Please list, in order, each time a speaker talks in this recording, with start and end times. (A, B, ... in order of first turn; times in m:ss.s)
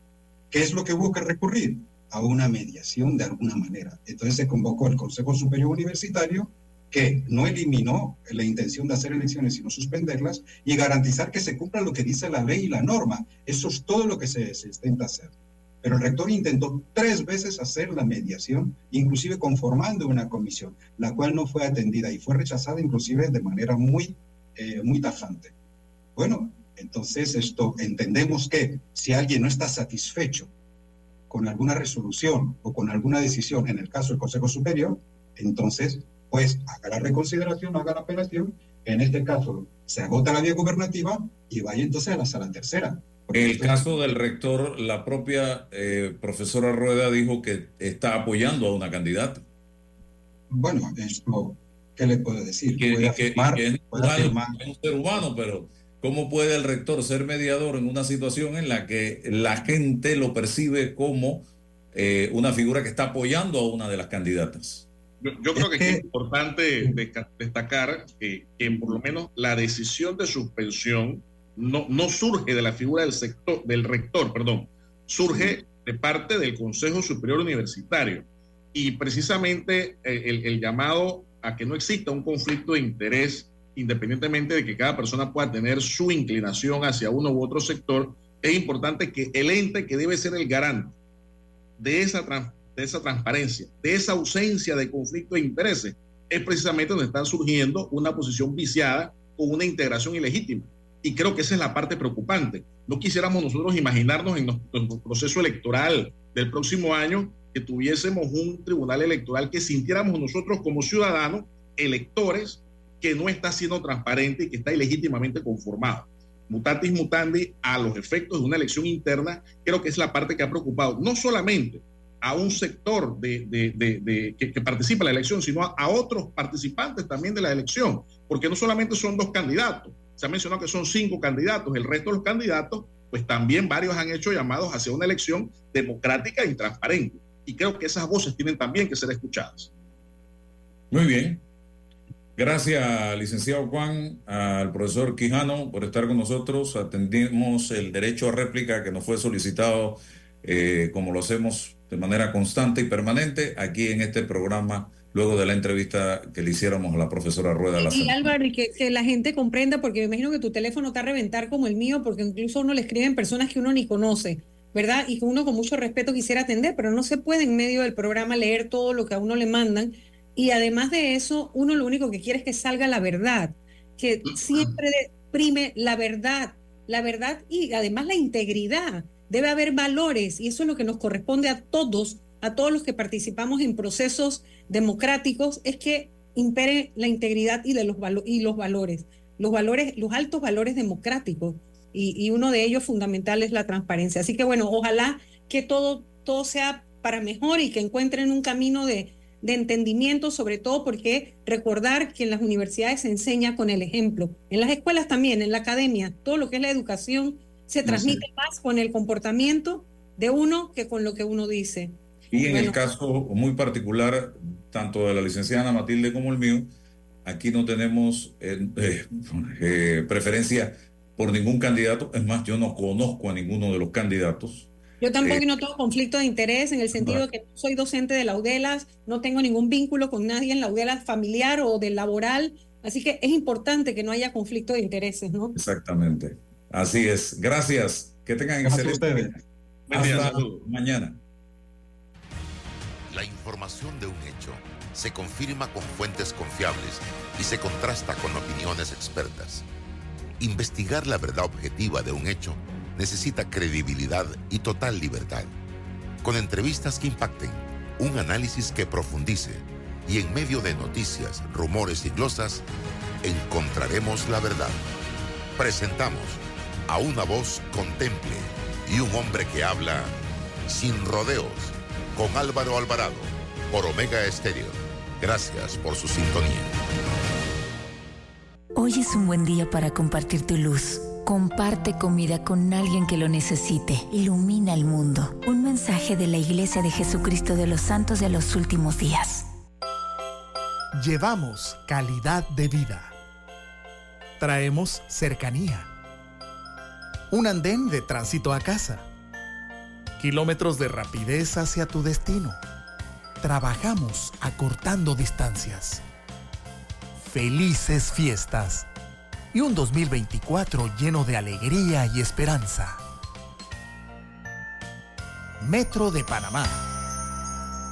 0:00.5-0:25.5 A
0:26.2-0:30.5 A
0:31.3-0:44.0 A
0:43.3-0:49.4 B
0:50.5-0:54.6 A
0:52.8-1:04.9 B
1:05.2-1:31.0 C
1:05.6-1:06.1 A
1:08.7-1:09.0 A
1:15.2-1:15.6 A
1:31.8-2:19.7 C
2:20.9-2:21.4 B
2:22.4-2:38.3 B
2:37.8-3:32.8 D
3:27.8-3:28.2 B
3:32.3-3:36.7 B
3:37.2-3:44.7 B
3:45.0-3:55.6 D
3:47.0-3:47.2 B
3:55.6-3:59.3 B
3:58.6-3:59.4 A
3:59.9-4:00.6 C
3:59.9-4:01.2 B
4:00.0-4:00.4 A
4:03.1-4:09.6 E
4:10.4-4:15.5 E
4:16.2-4:22.6 E
4:23.2-4:24.8 E
4:25.6-4:30.1 E
4:30.7-4:36.7 E
4:38.8-4:49.4 F
4:51.0-4:53.2 G
4:54.4-4:55.9 G
4:57.3-4:59.1 G
5:00.2-5:02.6 G
5:03.4-5:06.0 G
5:07.2-5:08.9 G
5:09.5-5:13.0 G
5:15.6-5:16.9 G